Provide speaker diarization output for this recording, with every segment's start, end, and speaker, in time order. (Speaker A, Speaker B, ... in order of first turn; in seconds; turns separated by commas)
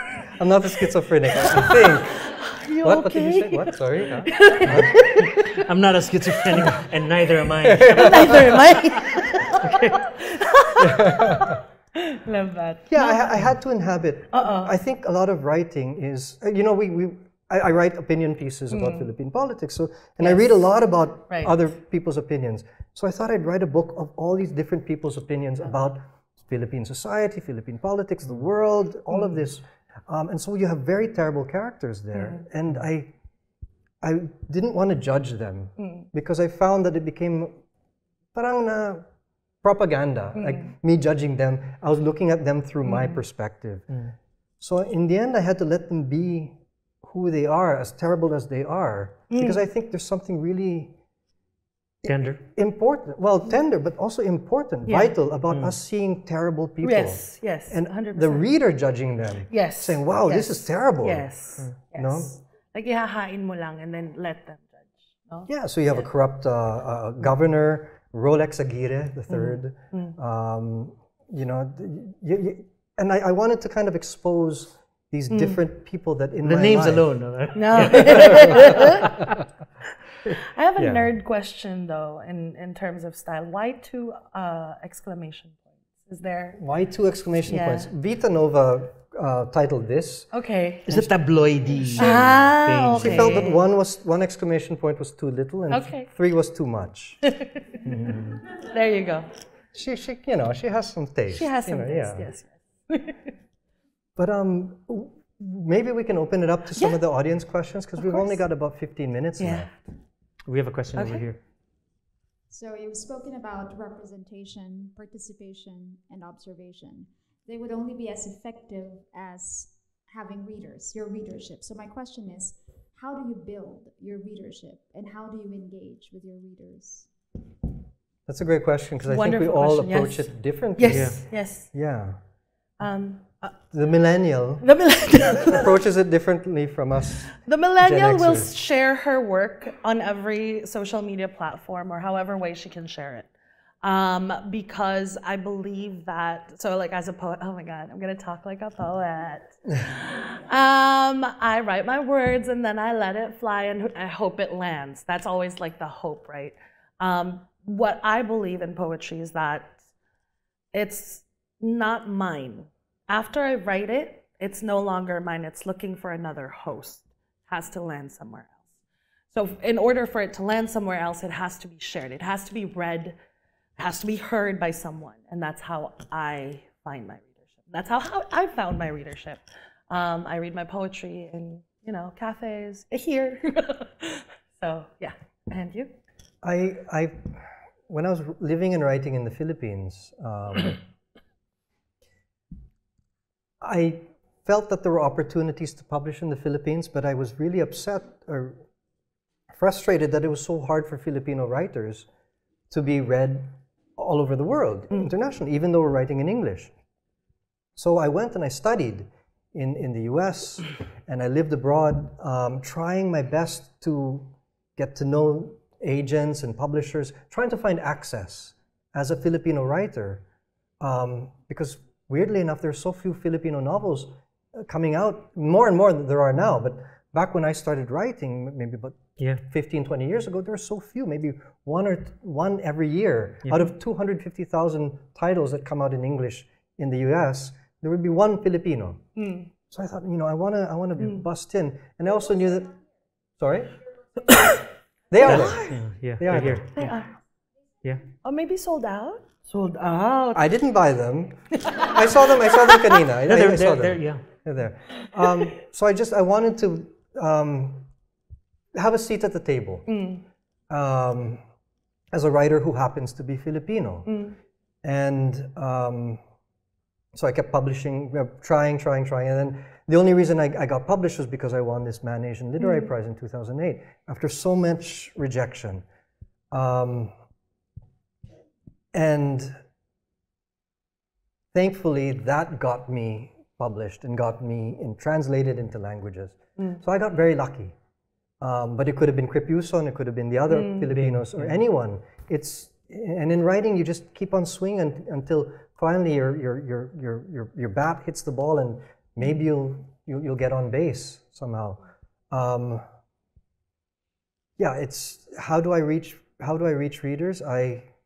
Speaker A: 0.3-2.2, Speaker B: 1.4-5.6, Speaker A: 2.8-5.0, Speaker C: 5.6-8.6, Speaker A: 7.6-8.5, Speaker B: 7.9-13.4, Speaker C: 9.6-10.0, Speaker A: 10.8-11.6, Speaker A: 12.9-33.1, Speaker B: 14.3-14.7, Speaker B: 18.7-19.1, Speaker B: 20.2-20.6, Speaker B: 21.3-21.5, Speaker B: 32.1-32.4, Speaker A: 34.0-37.6, Speaker B: 35.8-36.1, Speaker A: 38.3-39.0, Speaker A: 39.6-43.9, Speaker B: 40.4-40.7, Speaker B: 42.9-43.2, Speaker A: 44.6-50.9, Speaker B: 49.3-49.6, Speaker C: 52.0-52.4, Speaker A: 52.0-61.3, Speaker B: 54.9-55.1, Speaker C: 55.5-55.8, Speaker B: 56.8-58.5, Speaker B: 59.5-66.1, Speaker A: 61.9-62.4, Speaker A: 65.5-77.1, Speaker B: 69.3-70.2, Speaker B: 75.3-75.6, Speaker C: 76.4-79.3, Speaker B: 77.5-79.1, Speaker A: 77.8-78.7, Speaker B: 80.5-86.6, Speaker A: 80.8-81.1, Speaker A: 86.6-90.3, Speaker B: 87.5-87.9, Speaker B: 90.3-90.9, Speaker C: 90.9-93.5, Speaker A: 91.8-92.2, Speaker B: 92.0-93.6, Speaker A: 93.0-97.2, Speaker B: 95.7-96.1, Speaker B: 97.3-97.7, Speaker C: 97.8-98.4, Speaker B: 98.6-99.3, Speaker A: 99.7-102.3, Speaker B: 101.3-103.2, Speaker A: 104.2-109.8, Speaker B: 108.0-108.4, Speaker B: 109.4-109.7, Speaker C: 110.5-111.4, Speaker B: 111.0-111.3, Speaker D: 112.5-127.1, Speaker A: 128.3-132.2, Speaker B: 129.1-131.7, Speaker C: 130.9-131.2, Speaker B: 132.8-133.6, Speaker A: 133.7-138.5, Speaker B: 134.6-135.7, Speaker B: 137.4-143.3, Speaker B: 143.8-159.8, Speaker B: 160.7-168.6, Speaker B: 169.3-173.2, Speaker B: 173.8-185.9, Speaker A: 186.4-190.8, Speaker A: 193.6-198.6, Speaker A: 199.5-202.1, Speaker A: 202.7-206.7, Speaker A: 207.8-220.2, Speaker A: 220.8-239.0, Speaker B: 239.2-239.5, Speaker A: 239.7-242.7, Speaker B: 241.0-241.2, Speaker A: 243.4-243.7, Speaker A: 245.1-246.7, Speaker B: 245.2-245.8, Speaker C: 245.2-246.9, Speaker B: 246.8-247.1, Speaker B: 248.2-250.4, Speaker A: 250.3-257.9, Speaker B: 251.7-252.9, Speaker C: 253.2-254.2, Speaker A: 258.7-259.9, Speaker B: 259.9-260.2, Speaker A: 260.7-261.4, Speaker A: 262.1-264.2, Speaker B: 264.1-264.4, Speaker A: 264.8-266.2, Speaker A: 267.1-275.8, Speaker B: 272.6-272.9, Speaker A: 276.5-277.1, Speaker A: 278.9-279.6, Speaker A: 281.5-287.7, Speaker A: 288.4-302.8, Speaker B: 290.5-290.9, Speaker C: 290.9-291.6, Speaker A: 304.6-307.9